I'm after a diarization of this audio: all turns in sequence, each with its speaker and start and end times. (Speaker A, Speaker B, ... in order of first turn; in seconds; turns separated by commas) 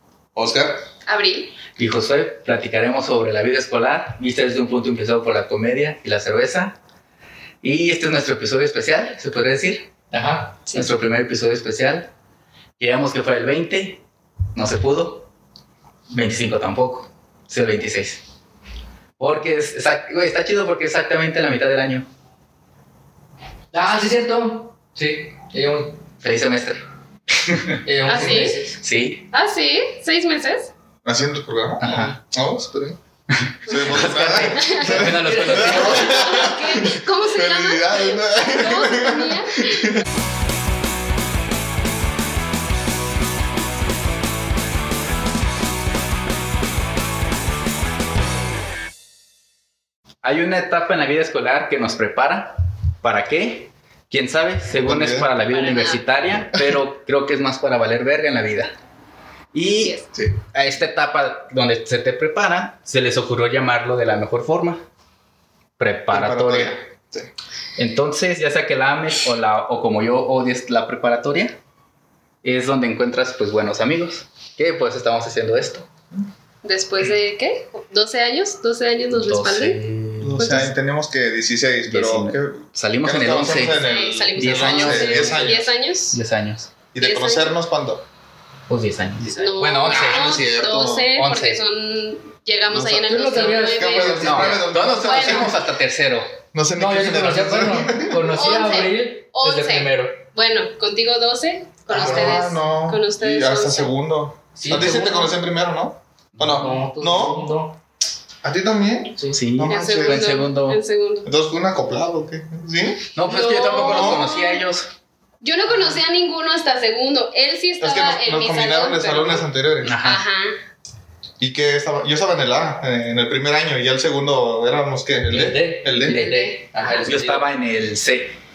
Speaker A: 0.3-0.8, Speaker B: 1.1-1.6, Speaker C: 1.8-6.8, Speaker C: 7.6-9.9, Speaker D: 10.1-10.6, Speaker B: 10.7-10.9, Speaker C: 10.7-12.1, Speaker C: 12.8-14.0, Speaker C: 14.6-15.3, Speaker C: 16.1-18.2, Speaker C: 19.2-22.1, Speaker D: 23.7-26.0, Speaker C: 26.2-29.2, Speaker D: 27.9-28.8, Speaker B: 28.1-28.6, Speaker B: 29.3-30.7, Speaker A: 31.1-33.0, Speaker C: 31.8-32.2, Speaker C: 33.3-36.4, Speaker A: 33.6-40.0, Speaker B: 34.4-34.9, Speaker D: 34.9-36.2, Speaker B: 35.7-39.9, Speaker C: 50.2-58.7, Speaker A: 54.8-55.3, Speaker B: 55.5-56.0, Speaker C: 59.5-60.0, Speaker B: 59.8-60.1, Speaker C: 60.5-64.8, Speaker C: 65.8-66.8, Speaker A: 66.1-67.3, Speaker C: 67.8-71.6, Speaker C: 72.4-75.9, Speaker B: 76.6-79.8, Speaker C: 79.1-80.7, Speaker A: 80.2-85.7, Speaker B: 80.4-80.7, Speaker C: 81.9-83.8, Speaker B: 83.8-86.2, Speaker C: 84.4-85.6, Speaker D: 84.8-85.5, Speaker C: 86.1-86.7, Speaker A: 86.9-88.0, Speaker B: 87.0-87.5, Speaker C: 88.7-90.4, Speaker D: 89.2-89.5, Speaker B: 89.3-95.6, Speaker A: 89.9-91.1, Speaker C: 91.1-91.6, Speaker A: 92.7-95.5, Speaker D: 93.1-94.3, Speaker C: 94.2-96.3, Speaker A: 96.5-98.4, Speaker D: 96.8-100.2, Speaker B: 98.3-103.9, Speaker A: 101.9-107.5, Speaker D: 101.9-102.4, Speaker D: 104.6-105.2, Speaker B: 104.7-105.3, Speaker D: 106.5-107.8, Speaker A: 108.4-110.3, Speaker C: 109.3-110.8, Speaker B: 109.7-111.3, Speaker A: 111.2-113.1, Speaker C: 113.2-114.9, Speaker B: 113.3-114.6, Speaker A: 113.7-114.3, Speaker B: 115.4-120.6, Speaker A: 117.8-120.0, Speaker C: 119.8-120.2, Speaker A: 121.4-126.2, Speaker D: 125.3-127.5, Speaker B: 126.0-127.1, Speaker C: 127.0-128.4